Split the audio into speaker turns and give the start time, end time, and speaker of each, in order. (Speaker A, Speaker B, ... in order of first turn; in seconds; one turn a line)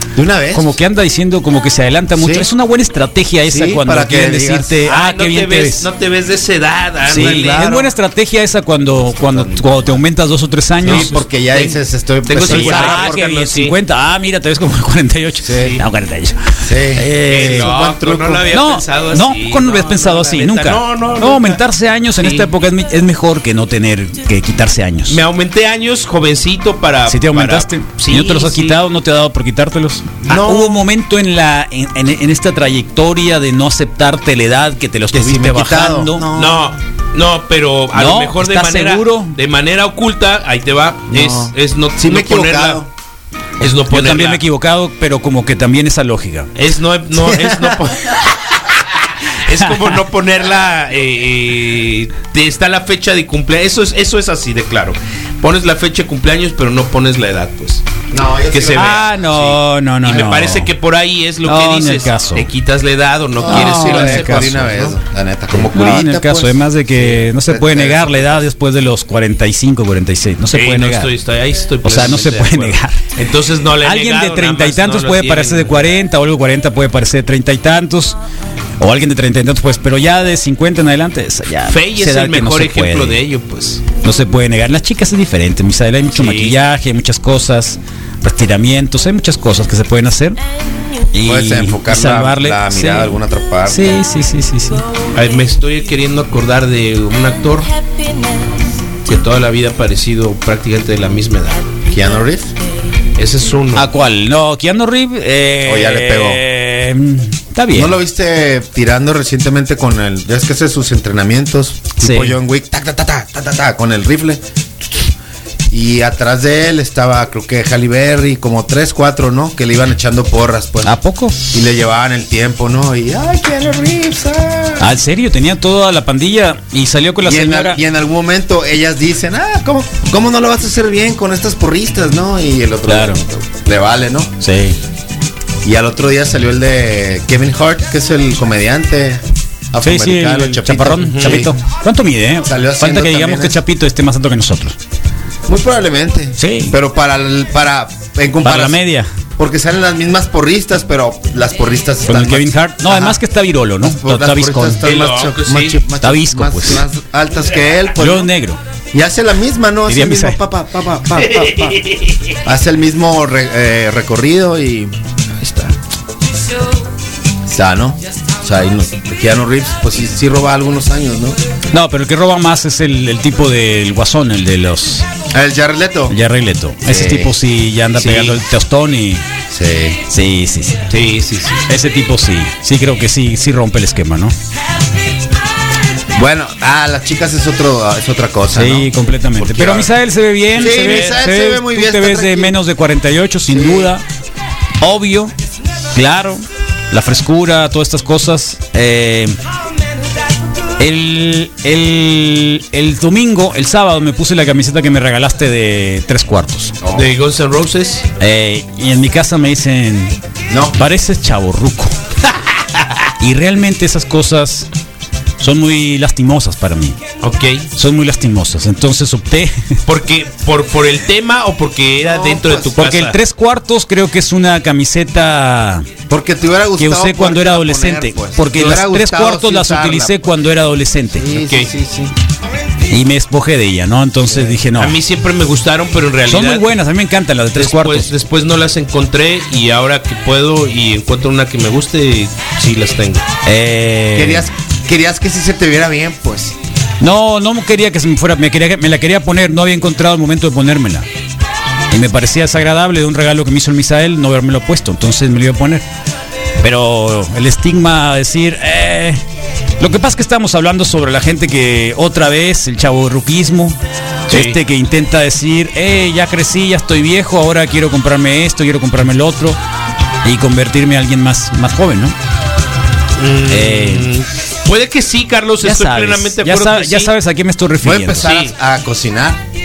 Speaker A: 0.1-0.8
Speaker B: 0.5-5.9
Speaker A: 2.2-2.5
Speaker A: 3.4-4.8
Speaker C: 4.9-7.8
Speaker B: 7.1-11.2
Speaker A: 7.1-7.9
Speaker A: 9.0-10.0
Speaker A: 10.8-13.3
Speaker C: 10.8-13.7
Speaker B: 12.3-17.7
Speaker A: 15.4-15.8
Speaker A: 16.6-18.5
Speaker C: 17.3-21.6
Speaker B: 18.5-25.2
Speaker C: 22.2-22.5
Speaker C: 25.1-28.8
Speaker B: 27.1-36.2
Speaker C: 30.3-30.6
Speaker A: 30.3-30.6
Speaker A: 35.1-36.7
Speaker C: 36.3-42.8
Speaker B: 37.9-39.3
Speaker A: 41.1-42.9
Speaker C: 43.6-44.4
Speaker B: 43.6-46.5
Speaker C: 46.5-48.6
Speaker A: 47.2-47.9
Speaker C: 49.3-57.8
Speaker A: 58.1-59.1
Speaker C: 58.5-64.9
Speaker B: 58.8-60.7
Speaker B: 61.4-62.5
Speaker A: 63.4-68.4
Speaker B: 63.4-64.7
Speaker B: 65.6-71.1
Speaker C: 70.5-75.9
Speaker B: 71.8-73.0
Speaker B: 73.8-78.2
Speaker B: 78.8-83.2
Speaker C: 81.7-83.8
Speaker B: 84.0-90.4
Speaker C: 86.1-86.5
Speaker B: 91.1-94.8
Speaker A: 91.2-94.0
Speaker C: 95.1-97.7
Speaker C: 99.0-101.7
Speaker A: 101.9-102.5
Speaker C: 103.2-103.9
Speaker B: 103.7-108.0
Speaker A: 105.7-106.4
Speaker A: 107.7-114.4
Speaker B: 112.0-112.4
Speaker A: 115.7-120.9
Speaker B: 120.8-121.3
Speaker A: 121.5-124.9
Speaker B: 124.8-127.8
Speaker A: 127.2-134.3
Speaker B: 132.9-133.2
Speaker B: 134.4-134.8
Speaker A: 135.6-141.5
Speaker B: 139.8-144.8
Speaker C: 141.1-141.4
Speaker A: 142.4-143.6
Speaker A: 145.5-148.8
Speaker B: 146.4-146.8
Speaker B: 148.4-149.1
Speaker A: 149.4-153.2
Speaker B: 152.1-154.8
Speaker A: 153.8-158.3
Speaker C: 154.8-155.8
Speaker B: 156.0-156.8
Speaker B: 158.0-158.6
Speaker A: 158.9-161.8
Speaker B: 159.9-160.4
Speaker C: 161.2-162.2
Speaker A: 162.4-165.7
Speaker A: 167.4-171.4
Speaker B: 171.7-175.1
Speaker A: 175.3-176.2
Speaker B: 176.1-179.2
Speaker A: 176.8-177.3
Speaker A: 178.0-178.3
Speaker A: 179.5-180.0
Speaker B: 180.1-180.8
Speaker C: 180.9-181.7
Speaker B: 181.7-184.3
Speaker A: 186.1-189.9
Speaker B: 188.5-194.0
Speaker A: 190.5-192.6
Speaker C: 190.8-191.1
Speaker A: 193.5-193.9
Speaker B: 194.8-195.3
Speaker B: 195.9-199.4
Speaker B: 200.8-206.8
Speaker A: 206.8-207.1
Speaker C: 206.9-208.1
Speaker B: 208.2-210.2
Speaker A: 210.5-210.8
Speaker B: 210.8-211.9
Speaker B: 213.2-214.7
Speaker B: 215.4-217.0
Speaker C: 217.2-217.7
Speaker B: 217.8-219.6
Speaker C: 219.8-223.2
Speaker A: 222.0-222.8
Speaker B: 222.8-225.9
Speaker A: 226.1-230.3
Speaker B: 226.8-231.3
Speaker A: 231.1-232.1
Speaker C: 231.4-231.7
Speaker B: 232.9-234.9
Speaker C: 234.8-236.7
Speaker B: 236.3-238.1
Speaker C: 237.6-243.2
Speaker B: 243.4-244.4
Speaker A: 244.1-246.5
Speaker B: 247.0-251.1
Speaker B: 251.9-255.8
Speaker B: 256.6-259.2
Speaker B: 259.8-263.8
Speaker C: 264.3-264.6
Speaker B: 264.3-269.6
Speaker B: 270.2-272.1
Speaker C: 273.2-277.1
Speaker B: 273.5-274.1
Speaker B: 275.6-278.3
Speaker A: 277.8-279.4
Speaker C: 278.2-278.5